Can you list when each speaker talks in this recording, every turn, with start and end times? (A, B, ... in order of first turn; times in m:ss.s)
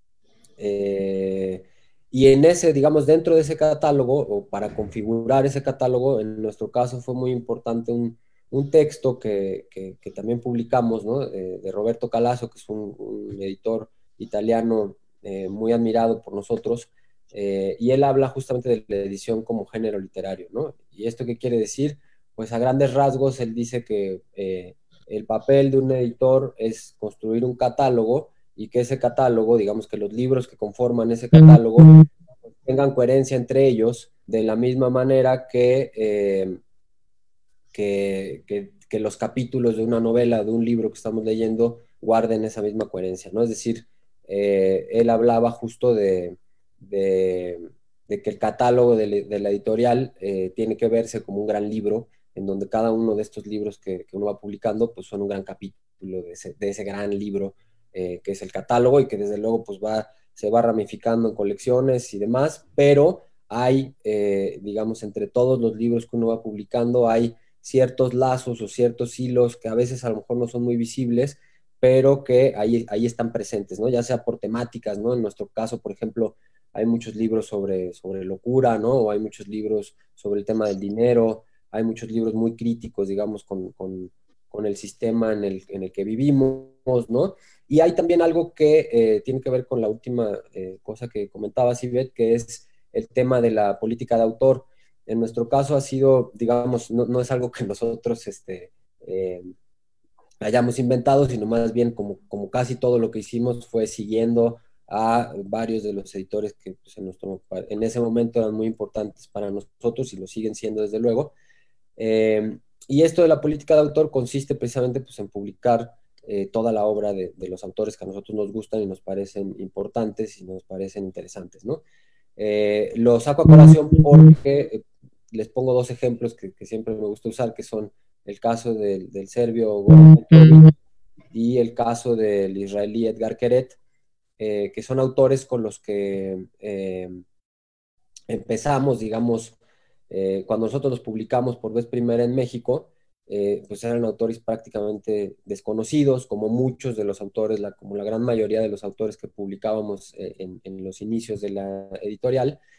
0:00.6-0:32.0 A
0:32.6-0:36.6 A
0:37.7-1:39.5 A
1:40.4-1:51.3 A
1:52.0-2:01.8 A
2:02.4-2:10.7 A
2:11.3-2:13.8 A
2:14.4-2:17.2 A
2:18.3-2:19.6 A
2:20.1-2:32.6 A